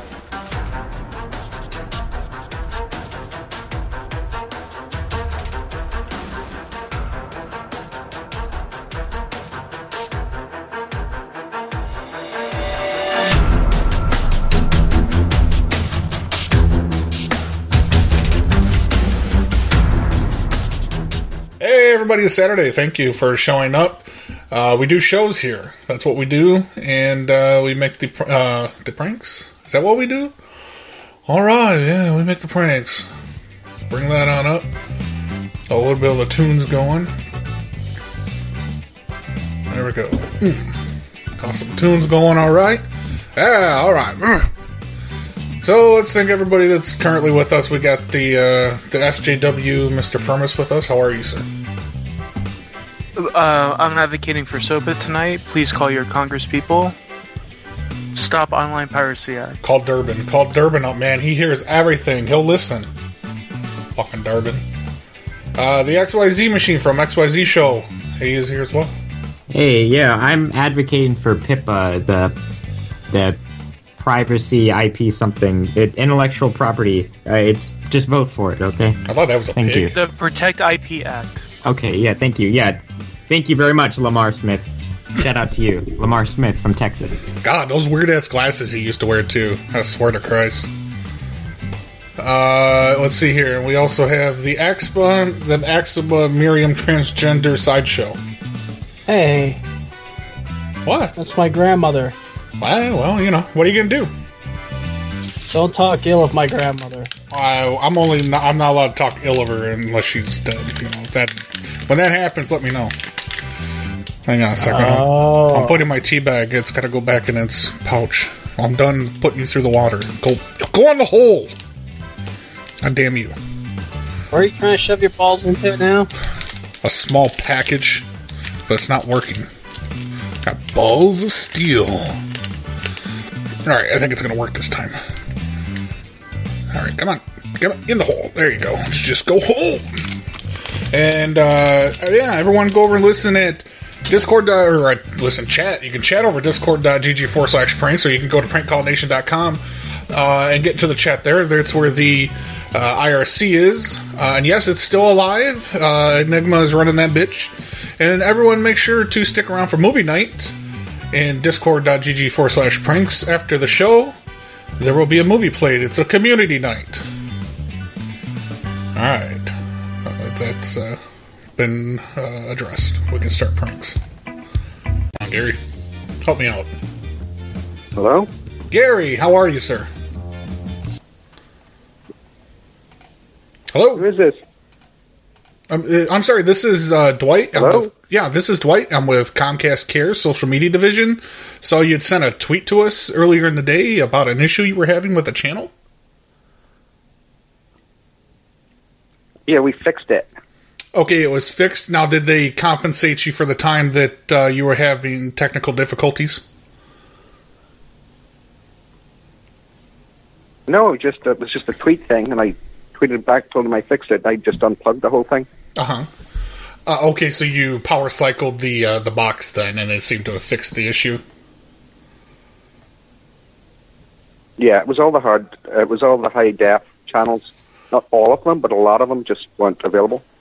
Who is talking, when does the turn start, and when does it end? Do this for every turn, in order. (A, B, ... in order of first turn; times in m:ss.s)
0:21.6-0:30.4 A
0:31.3-0:33.1 A
0:33.8-0:34.7 A
0:35.7-0:37.1 A
0:39.7-0:40.7 A
0:41.4-0:42.8 A
0:43.4-0:44.5 A
0:45.6-0:51.5 A
0:53.2-0:57.0 B
0:58.1-0:59.6 B
0:59.6-1:02.9 A
1:04.0-1:04.7 A
1:05.6-1:08.9 A
1:09.5-1:12.4 C
1:13.1-1:13.4 C
1:14.0-1:19.0 C
1:19.1-1:20.0 A
1:19.6-1:19.9 C
1:19.9-1:21.4 B
1:21.6-1:27.2 C
1:27.4-1:30.7 A
1:32.2-1:38.2 A
1:39.1-1:39.6 D
1:40.8-1:41.2 A
1:41.2-1:42.2 D
1:42.6-1:44.1 A
1:45.5-1:47.1 D
1:47.3-1:52.9 A
1:54.3-2:01.6 A
1:54.6-1:55.8 D
2:02.8-2:03.4 A
2:04.3-2:06.1 D
2:06.8-2:08.1 A
2:08.7-2:09.5 A
2:10.4-2:12.2 A
2:13.6-2:15.0 A
2:16.7-2:20.1 A
2:20.9-2:40.6 A
2:41.1-2:44.2 A
2:44.8-2:47.1 A
2:49.0-2:49.5 A
2:50.0-2:51.0 A
2:51.6-2:54.0 A
2:55.2-2:55.6 A
2:56.2-2:56.7 A
2:58.0-2:58.3 E
2:58.7-2:59.9 A
3:03.7-3:04.1 A
3:04.0-3:04.4 E
3:05.7-3:15.7 A
3:07.5-3:07.9 E
3:19.5-3:20.3 E
3:21.0-3:26.5 A
3:30.7-3:35.5 E
3:35.8-3:36.1 A
3:36.9-3:41.2 A
3:44.6-3:50.2 E